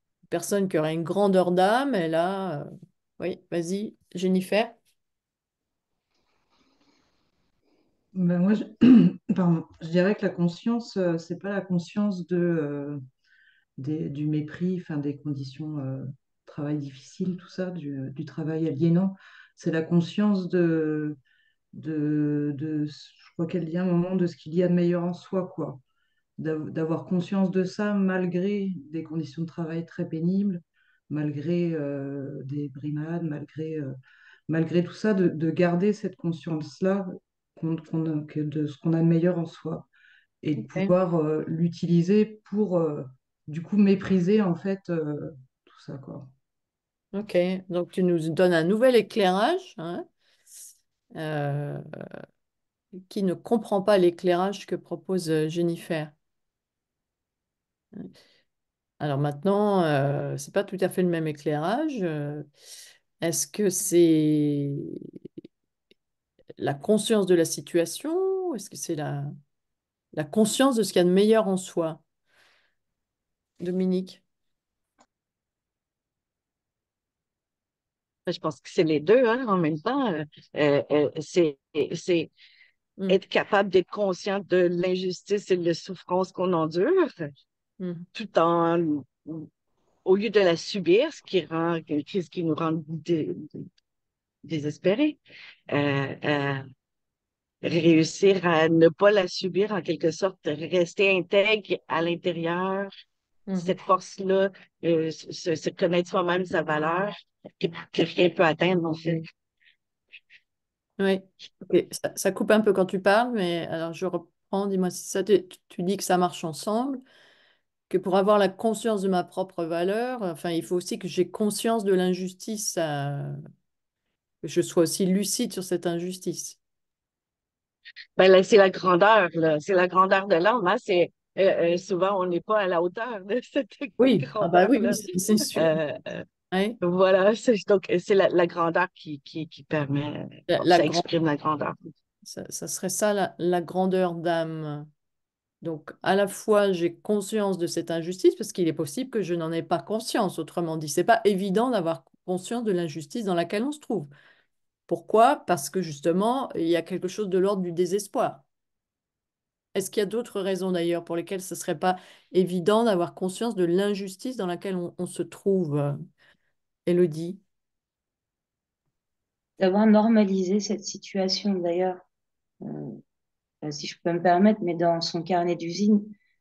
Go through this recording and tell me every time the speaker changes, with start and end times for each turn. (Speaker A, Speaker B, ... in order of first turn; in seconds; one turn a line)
Speaker A: 0.3-2.7
Speaker A: 3.2-4.8
Speaker B: 8.1-13.0
Speaker B: 13.8-21.2
Speaker B: 21.7-25.8
Speaker B: 26.4-33.9
Speaker B: 34.5-39.9
Speaker B: 40.4-46.3
Speaker A: 40.6-40.9
Speaker A: 47.1-50.0
Speaker A: 51.1-51.8
Speaker A: 53.1-56.1
Speaker A: 59.0-62.5
Speaker A: 63.2-65.0
Speaker A: 66.6-69.3
Speaker A: 70.1-72.0
Speaker A: 73.6-74.2
Speaker C: 78.3-82.3
Speaker C: 83.1-87.3
Speaker A: 87.8-88.0
Speaker C: 88.1-89.5
Speaker C: 90.0-93.7
Speaker C: 94.4-95.2
Speaker C: 95.7-96.6
Speaker C: 97.6-102.9
Speaker A: 103.5-103.7
Speaker C: 103.6-109.2
Speaker A: 111.0-117.0
Speaker A: 117.9-123.4
Speaker A: 124.4-126.6
Speaker C: 128.2-136.2
Speaker A: 134.0-135.7
Speaker A: 136.5-136.8
Speaker C: 136.8-141.9
Speaker A: 140.5-141.0
Speaker A: 142.2-144.9
Speaker A: 145.6-154.1
Speaker A: 154.9-158.4
Speaker A: 159.7-166.0
Speaker A: 166.8-167.4
Speaker D: 169.6-172.0
Speaker D: 172.6-173.0
Speaker D: 173.6-176.2